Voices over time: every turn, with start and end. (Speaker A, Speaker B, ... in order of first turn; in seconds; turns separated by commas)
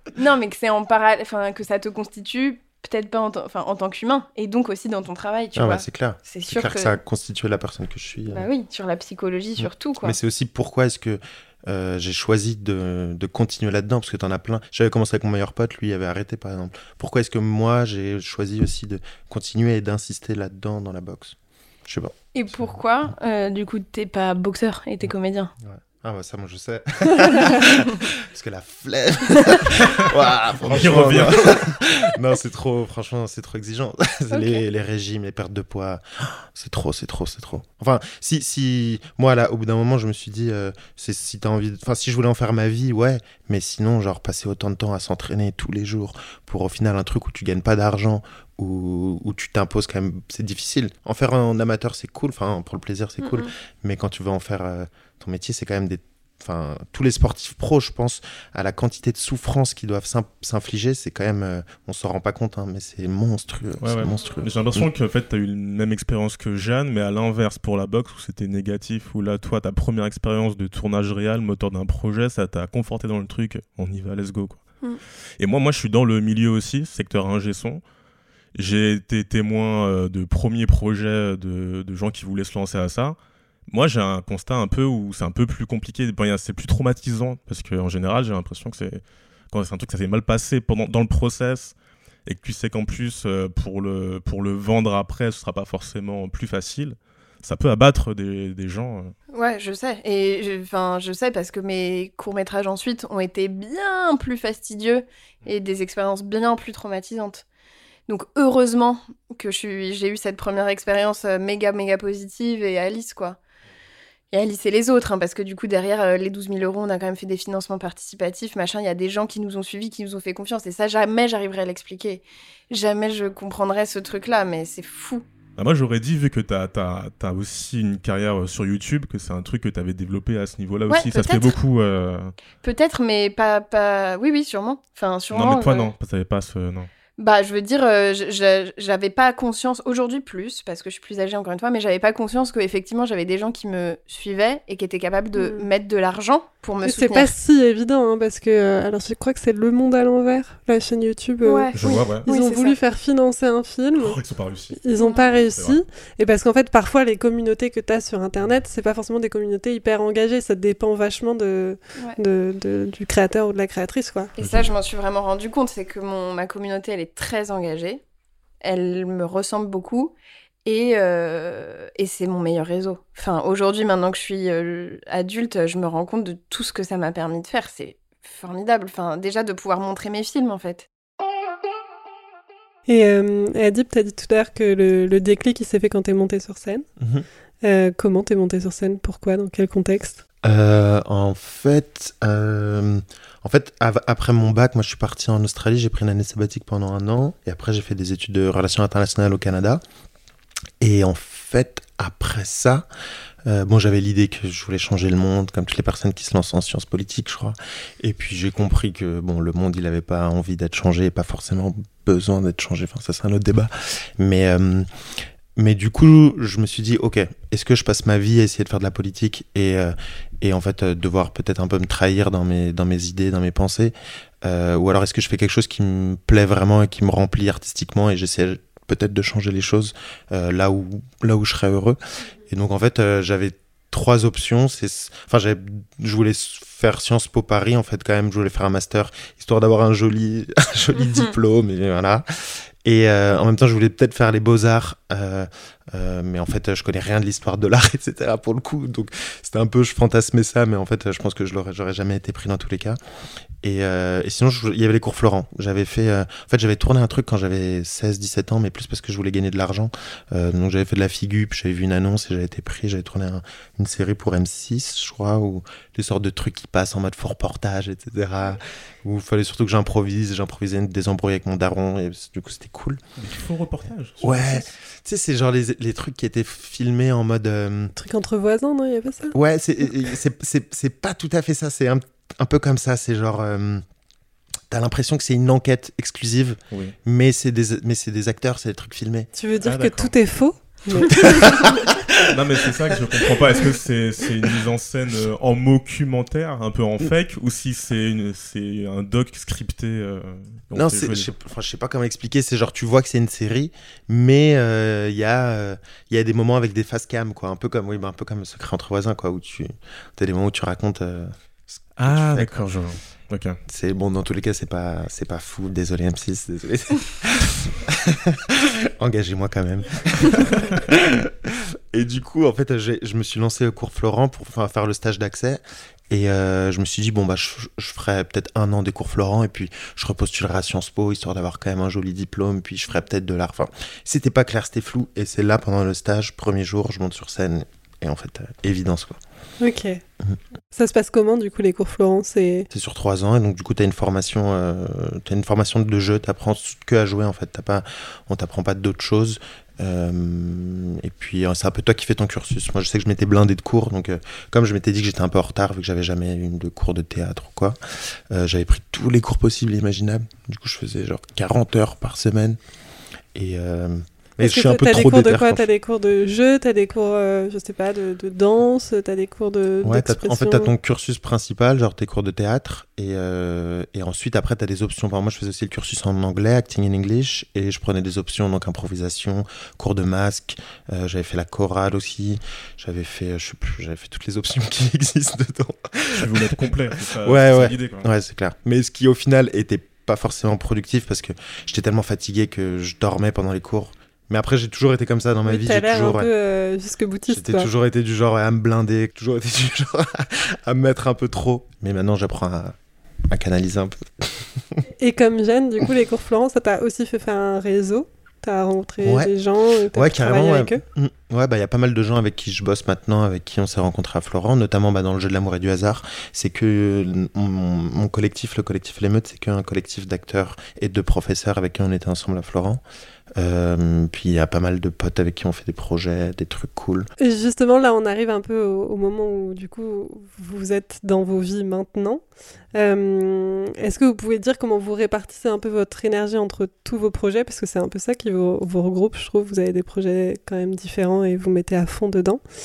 Speaker A: 0.1-7.0, Speaker B: 5.5-8.5, Speaker A: 8.3-10.2, Speaker B: 9.6-22.7, Speaker A: 22.3-25.5, Speaker B: 25.6-64.9, Speaker C: 30.6-31.6, Speaker A: 34.3-34.6, Speaker A: 53.2-53.5, Speaker C: 63.8-74.6, Speaker C: 75.4-77.8, Speaker C: 78.5-83.2, Speaker C: 83.7-91.8, Speaker C: 92.3-99.1, Speaker A: 99.3-107.5, Speaker A: 108.1-113.4, Speaker A: 114.3-125.2, Speaker C: 125.6-132.3, Speaker A: 130.9-131.6, Speaker A: 132.6-135.9, Speaker C: 135.3-136.9, Speaker A: 137.2-147.3, Speaker D: 145.4-145.7, Speaker D: 146.8-154.2, Speaker A: 151.4-152.8, Speaker C: 151.8-152.3, Speaker C: 154.0-154.8, Speaker D: 154.8-164.3, Speaker A: 155.0-155.4, Speaker C: 155.5-155.8, Speaker A: 164.4-168.0, Speaker C: 164.4-164.7, Speaker A: 168.6-180.9, Speaker D: 182.9-186.9, Speaker B: 187.0-187.3, Speaker D: 187.6-190.2, Speaker B: 190.4-199.8, Speaker B: 200.8-202.9, Speaker B: 203.4-214.9, Speaker B: 215.6-253.0, Speaker B: 253.6-273.0, Speaker C: 273.2-274.7, Speaker B: 274.2-277.9, Speaker D: 278.0-279.4, Speaker B: 279.3-283.8, Speaker B: 284.7-289.3, Speaker D: 289.4-291.4, Speaker C: 289.6-290.1, Speaker C: 292.3-301.3, Speaker B: 300.7-312.8, Speaker C: 312.0-313.6, Speaker B: 313.7-339.2, Speaker D: 339.6-340.0, Speaker D: 340.7-342.7, Speaker B: 342.7-357.8, Speaker B: 358.3-362.6, Speaker B: 363.3-365.7, Speaker D: 364.4-370.7, Speaker B: 369.8-396.3, Speaker C: 386.2-388.1, Speaker D: 395.5-397.7, Speaker B: 397.3-402.8, Speaker B: 403.3-404.8, Speaker D: 405.0-410.8, Speaker B: 409.0-409.3, Speaker B: 409.9-422.8, Speaker B: 423.4-427.1, Speaker D: 427.2-432.2, Speaker D: 432.7-442.4